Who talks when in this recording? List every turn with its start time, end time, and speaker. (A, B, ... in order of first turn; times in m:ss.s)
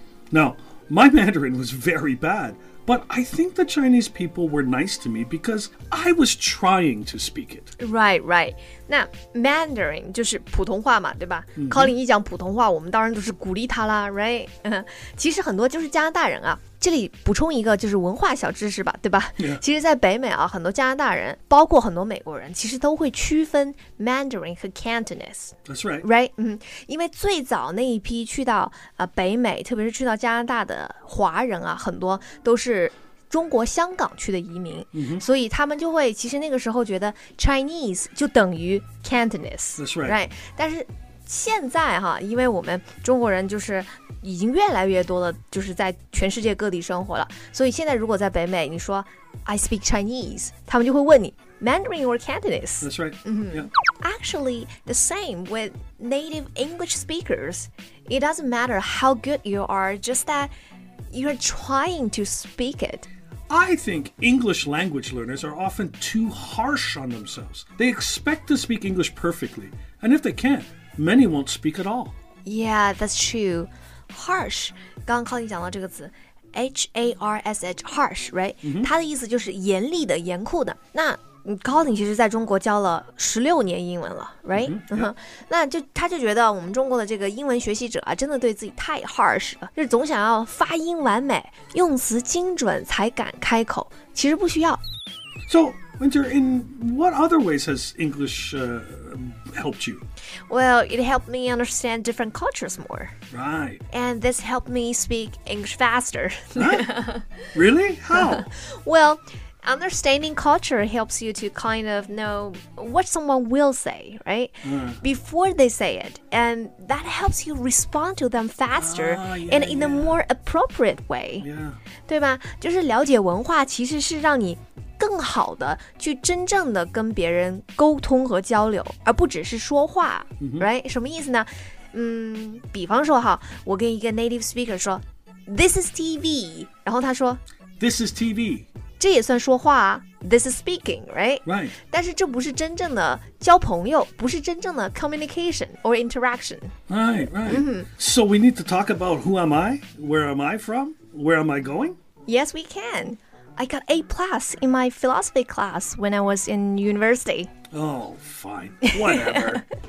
0:00.3-0:07.7 A
0:07.8-1:00.5 B
0:11.6-0:11.9 A
0:25.7-0:26.1 A
0:34.9-0:35.2 A
0:39.8-0:40.2 A
0:52.8-0:53.7 A
1:01.1-1:03.1 B
1:03.5-1:12.1 A
1:12.4-1:34.8 B
1:18.6-1:18.9 A
1:24.5-1:25.1 A
1:35.5-1:40.0 A
1:40.5-1:43.1 B
1:43.3-1:43.8 A
1:43.9-1:47.2 B
1:46.6-1:46.9 A
1:47.5-1:48.5 A
1:48.1-2:01.5 B
1:54.6-1:55.0 A
1:58.7-2:00.2 A
2:01.4-2:01.8 A
2:02.1-2:17.4 B
2:10.4-2:10.7 A
2:17.8-2:18.7 A
2:19.0-2:26.7 B
2:21.4-2:21.8 A
2:26.9-2:32.0 A
2:27.5-2:27.9 B
2:32.3-2:37.5 B
2:37.7-2:39.7 A
2:38.8-2:39.6 B